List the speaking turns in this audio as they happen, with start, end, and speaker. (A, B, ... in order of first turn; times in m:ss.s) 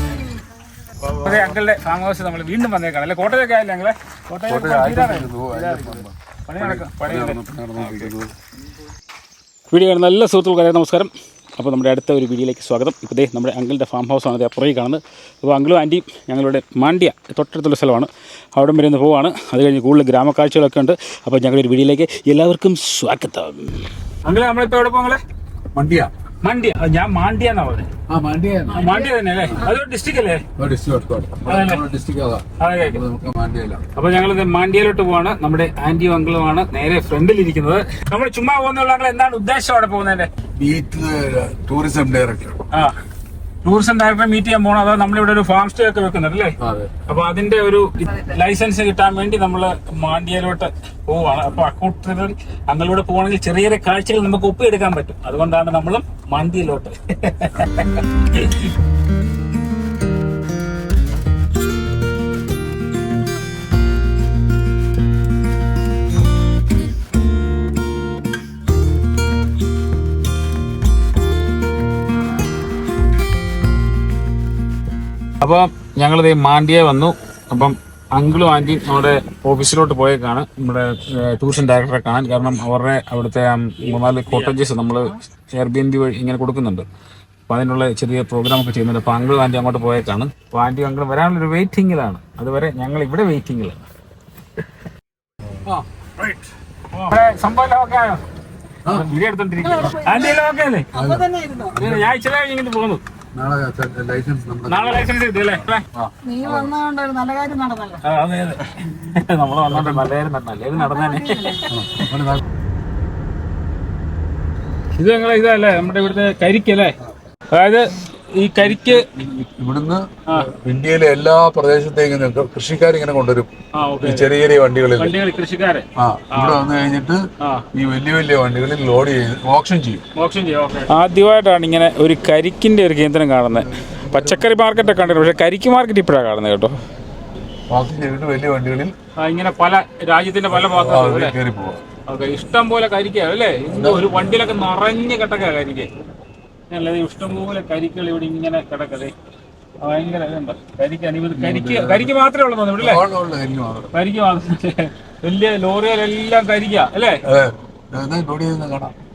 0:01.0-0:01.6 A
0:01.2-0:08.1 B
0:04.5-0:08.3 A
0:09.7-0:25.2 B
0:25.7-0:26.1 A
0:26.4-0:27.9 B
0:28.1-0:29.6 A
0:28.7-0:30.4 B
0:30.6-0:33.8 A
0:31.4-0:31.8 B
0:32.6-0:33.0 B
0:34.0-0:40.3 B
0:40.6-0:42.6 A
0:43.6-0:58.7 B
0:46.6-0:46.9 A
1:15.4-1:26.9 B
1:27.5-1:33.8 B
1:35.6-1:36.5 A
1:36.9-1:38.2 B
1:38.9-1:40.9 B
1:39.6-1:41.8 C
1:40.9-1:42.2 A
1:41.8-1:43.0 B
1:43.3-1:46.7 A
1:44.7-1:45.9 B
1:46.2-1:48.0 C
1:48.0-1:51.6 B
1:49.7-1:50.1 A
1:50.8-1:51.7 C
1:51.7-1:52.4 A
1:55.0-1:57.0 B
1:57.5-1:59.1 B
1:58.6-2:05.2 A
2:00.3-2:00.5 B
2:03.7-2:04.3 B
2:05.0-2:06.6 B
2:06.0-2:07.2 A
2:07.4-2:07.6 B
2:07.7-2:10.0 A
2:10.2-2:16.8 B
2:13.5-2:14.4 A
2:17.7-2:18.9 A
2:19.2-2:21.4 B
2:20.5-2:21.8 A
2:22.1-2:25.9 B
2:23.7-2:24.2 A
2:26.7-2:29.1 B
2:29.8-2:33.0 B
2:31.3-2:32.1 A
2:32.8-2:33.9 A
2:33.9-2:37.2 B
2:37.2-2:38.9 A